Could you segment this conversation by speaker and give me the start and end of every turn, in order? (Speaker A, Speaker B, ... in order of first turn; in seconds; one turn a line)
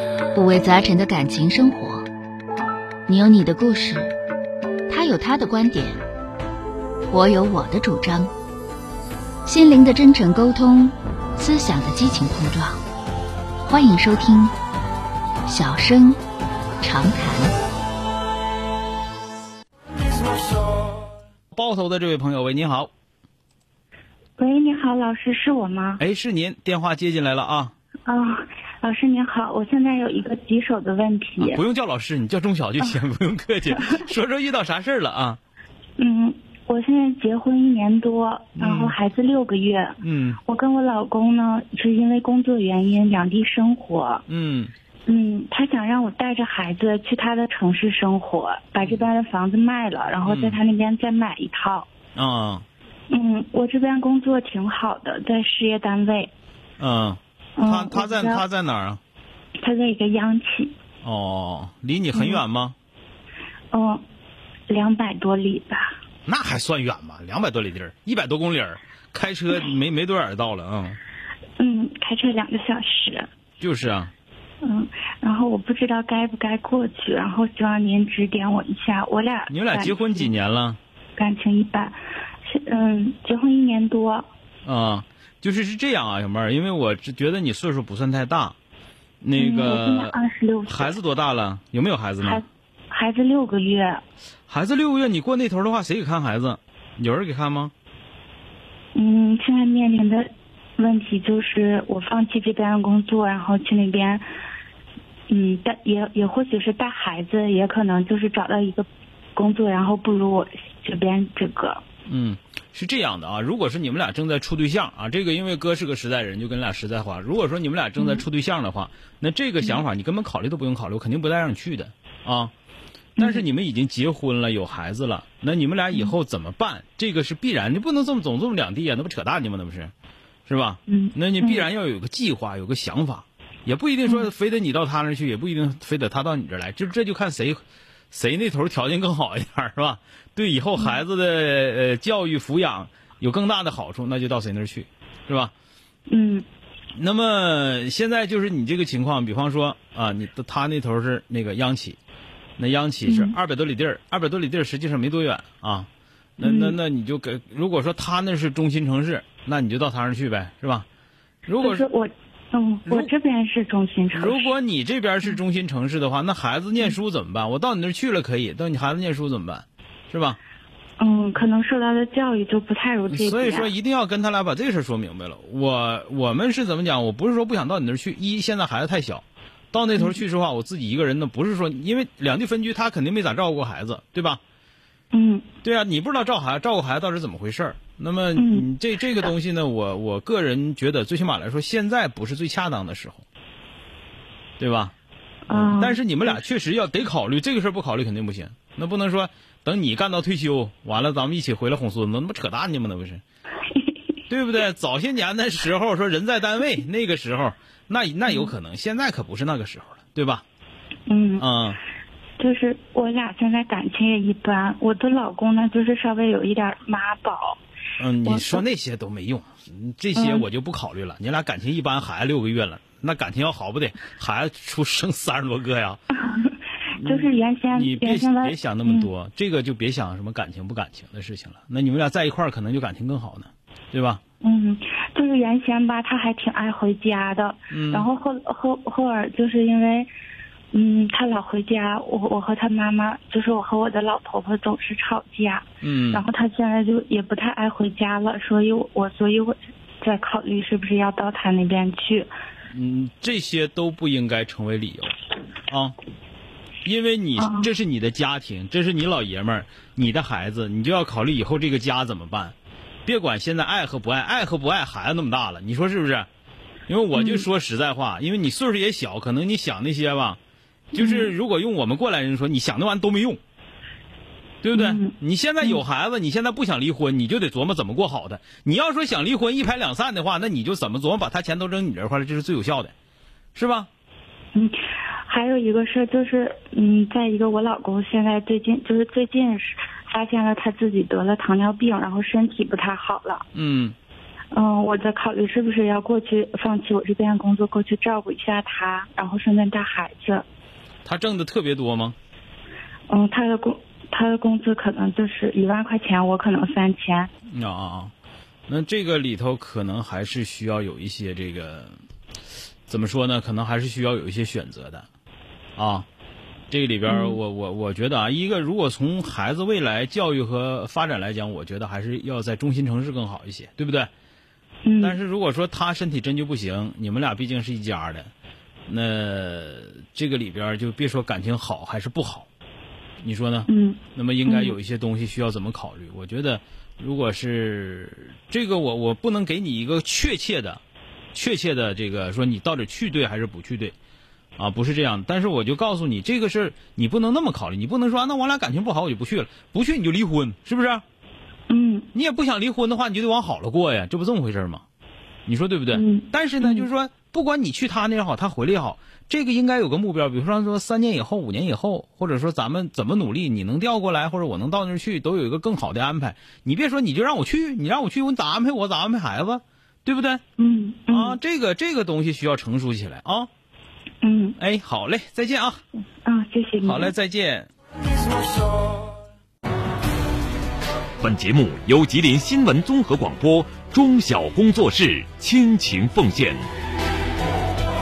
Speaker A: 0.3-2.1
Speaker A: 3.1-4.1
Speaker A: 4.9-6.0
Speaker A: 7.1-8.3
Speaker A: 9.5-12.8
Speaker A: 13.7-14.5
Speaker A: 15.5-16.2
Speaker A: 16.8-17.5
Speaker B: 21.5-22.9
Speaker C: 24.4-26.0
Speaker B: 26.0-27.7
Speaker C: 28.1-31.6
Speaker B: 31.4-35.4
Speaker C: 36.0-44.2
Speaker B: 38.6-39.0
Speaker B: 40.0-40.4
Speaker B: 44.3-44.7
Speaker C: 45.1-51.9
Speaker B: 48.8-49.1
Speaker B: 50.2-50.6
Speaker B: 52.2-52.6
Speaker C: 53.1-56.3
Speaker B: 56.8-59.0
Speaker C: 57.6-58.4
Speaker C: 59.6-60.7
Speaker B: 61.0-62.8
Speaker C: 62.1-62.4
Speaker C: 63.7-64.0
Speaker C: 64.7-66.0
Speaker B: 66.3-71.0
Speaker C: 71.6-73.3
Speaker B: 73.6-74.1
Speaker C: 74.6-80.3
Speaker B: 79.5-80.8
Speaker C: 81.2-84.3
Speaker B: 84.7-88.5
Speaker B: 89.2-90.2
Speaker C: 89.4-91.0
Speaker B: 90.7-92.4
Speaker C: 92.2-94.0
Speaker B: 94.5-97.7
Speaker C: 99.0-100.3
Speaker C: 100.8-104.2
Speaker C: 105.3-111.8
Speaker B: 112.1-122.5
Speaker C: 123.2-123.5
Speaker B: 123.2-129.9
Speaker B: 130.5-145.5
Speaker C: 130.9-131.7
Speaker C: 146.1-146.5
Speaker B: 147.0-152.0
Speaker B: 152.6-160.9
Speaker C: 153.1-153.3
Speaker C: 156.4-156.8
Speaker B: 161.5-161.9
Speaker C: 161.6-164.5
Speaker B: 164.1-170.4
Speaker C: 171.0-173.7
Speaker B: 173.1-184.4
Speaker C: 185.1-185.5
Speaker B: 185.6-193.2
Speaker C: 188.4-188.7
Speaker B: 194.6-194.9
Speaker C: 195.5-196.3
Speaker B: 195.5-203.2
Speaker B: 204.3-210.4
Speaker C: 208.3-208.5
Speaker C: 211.1-211.4
Speaker B: 211.4-211.8
Speaker C: 212.4-217.6
Speaker B: 218.0-226.0
Speaker C: 218.2-218.6
Speaker C: 220.2-220.5
Speaker C: 226.2-229.1
Speaker B: 226.9-234.2
Speaker C: 234.4-240.1
Speaker B: 237.7-238.1
Speaker C: 240.7-252.3
Speaker B: 245.8-246.2
Speaker B: 252.7-255.2
Speaker B: 255.7-255.9
Speaker B: 256.9-266.3
Speaker C: 257.4-257.7
Speaker B: 266.9-270.4
Speaker C: 267.1-267.5
Speaker B: 270.9-273.4
Speaker C: 270.9-271.3
Speaker B: 274.6-282.9
Speaker C: 274.7-275.8
Speaker B: 283.6-283.9
Speaker C: 284.5-293.4
Speaker B: 293.5-294.0
Speaker C: 294.5-300.4
Speaker B: 301.1-302.2
Speaker C: 303.1-307.3
Speaker B: 307.5-308.1
Speaker B: 308.7-312.0
Speaker B: 312.9-315.1
Speaker B: 315.8-316.1
Speaker B: 316.7-324.1
Speaker C: 317.1-317.4
Speaker C: 324.9-325.2
Speaker B: 325.0-328.3
Speaker B: 328.9-332.5
Speaker B: 333.2-340.8
Speaker C: 333.7-334.8
Speaker B: 341.3-343.9
Speaker B: 344.6-351.0
Speaker C: 351.7-352.1
Speaker B: 352.1-354.8
Speaker B: 355.5-370.4
Speaker C: 355.9-356.9
Speaker C: 370.6-371.4
Speaker B: 371.1-373.5
Speaker C: 374.2-374.6
Speaker B: 374.6-375.8
Speaker C: 376.2-377.1
Speaker B: 376.8-377.7
Speaker D: 381.2-386.6